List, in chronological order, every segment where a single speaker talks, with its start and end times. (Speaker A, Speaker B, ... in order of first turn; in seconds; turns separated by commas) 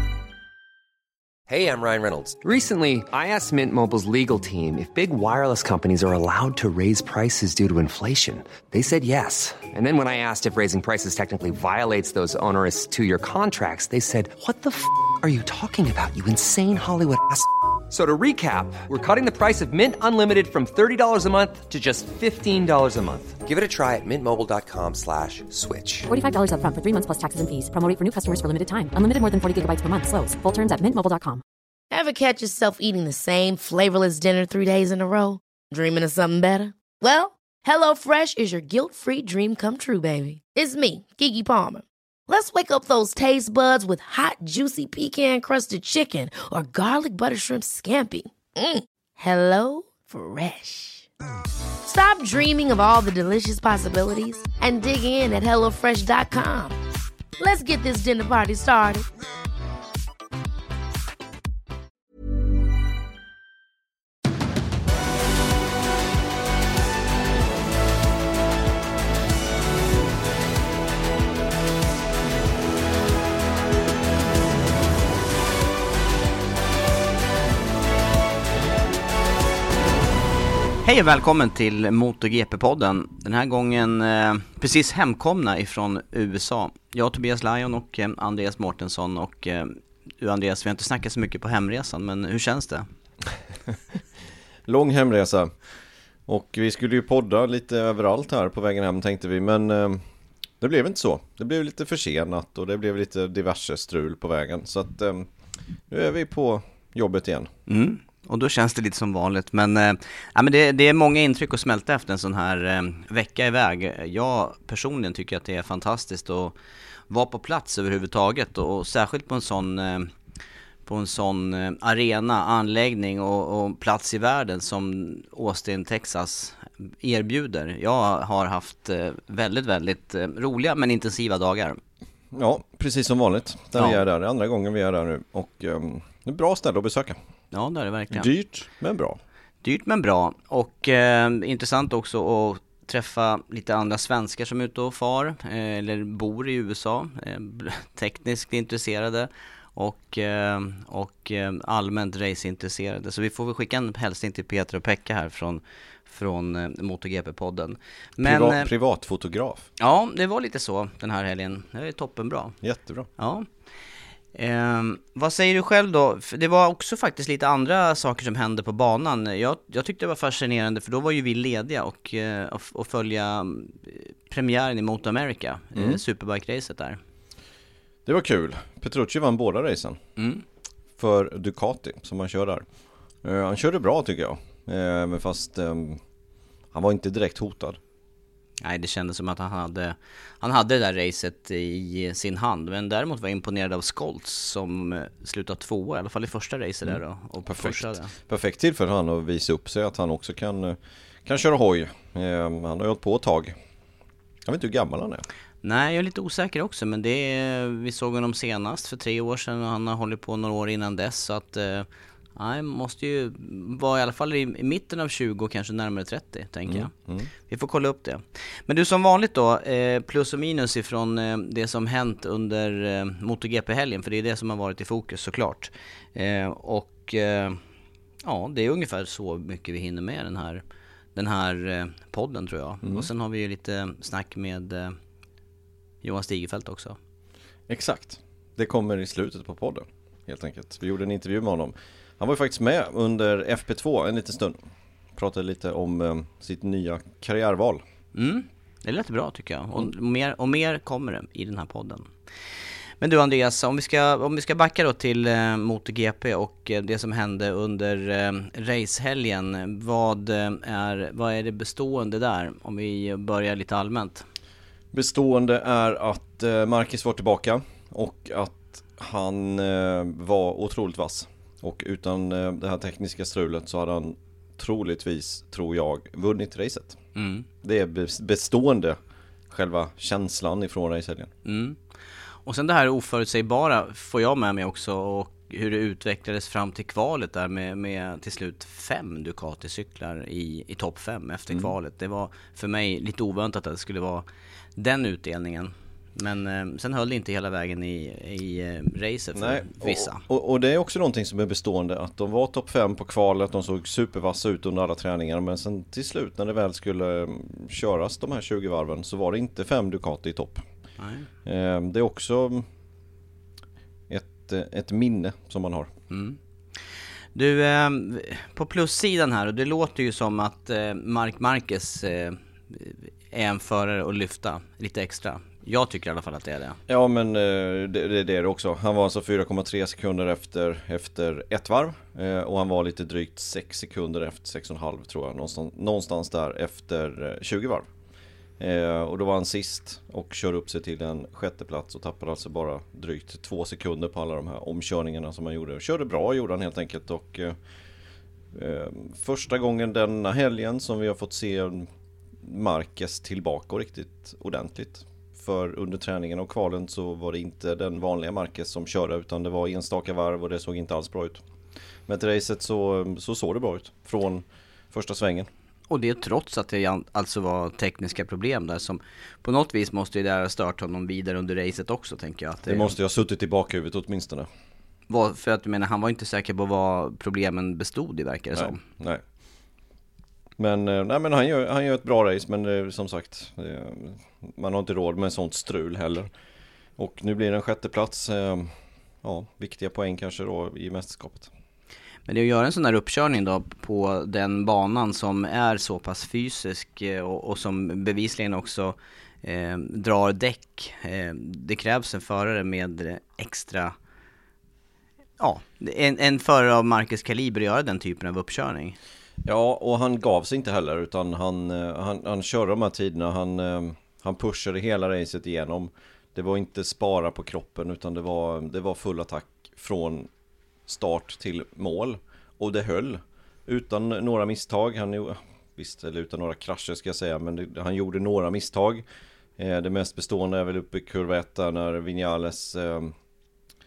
Speaker A: 1.5-26.1, Speaker B: 26.1-31.4, Speaker C: 31.9-51.1, Speaker C: 51.9-56.8, Speaker C: 57.4-59.1, Speaker D: 80.8-92.9, Speaker E: 94.7-95.5, Speaker E: 96.3-100.0, Speaker E: 100.6-105.3, Speaker E: 105.9-107.5, Speaker D: 107.7-116.5, Speaker D: 117.1-120.1, Speaker D: 120.8-131.8, Speaker E: 132.3-137.2, Speaker D: 137.5-138.3, Speaker E: 138.1-139.2, Speaker D: 139.6-158.7, Speaker E: 158.2-159.7, Speaker D: 159.8-162.6, Speaker E: 162.6-163.1, Speaker D: 163.2-163.5, Speaker D: 164.3-177.0, Speaker E: 175.7-176.0, Speaker E: 178.1-180.0, Speaker D: 180.2-180.4, Speaker E: 181.0-182.7, Speaker E: 183.2-186.0, Speaker E: 186.7-187.8, Speaker D: 188.6-198.1, Speaker E: 196.8-203.6, Speaker E: 204.5-205.3, Speaker D: 205.6-216.9, Speaker E: 216.7-217.3, Speaker D: 217.5-227.6, Speaker D: 228.2-230.6, Speaker D: 231.2-235.0, Speaker E: 232.8-233.1, Speaker D: 236.0-237.0, Speaker E: 237.7-244.6, Speaker E: 245.2-247.8, Speaker D: 248.2-252.1, Speaker D: 253.0-264.3, Speaker E: 264.9-277.0, Speaker D: 277.2-277.5, Speaker E: 277.6-279.0, Speaker E: 279.5-281.3, Speaker D: 281.4-281.8, Speaker D: 282.4-300.2, Speaker E: 299.4-310.6, Speaker D: 311.0-311.3, Speaker E: 311.4-312.7, Speaker E: 314.1-315.9, Speaker D: 316.1-316.4, Speaker D: 317.3-326.8, Speaker E: 326.9-337.9, Speaker E: 338.6-347.6, Speaker E: 348.5-351.9, Speaker E: 352.4-361.4, Speaker E: 362.1-365.5, Speaker D: 365.9-372.9, Speaker E: 372.6-374.5, Speaker D: 375.1-378.8, Speaker E: 378.5-379.2, Speaker E: 380.6-386.3, Speaker E: 387.0-391.5, Speaker D: 392.3-403.9, Speaker D: 405.4-409.0, Speaker E: 409.4-420.3, Speaker E: 420.9-429.1, Speaker E: 429.6-433.1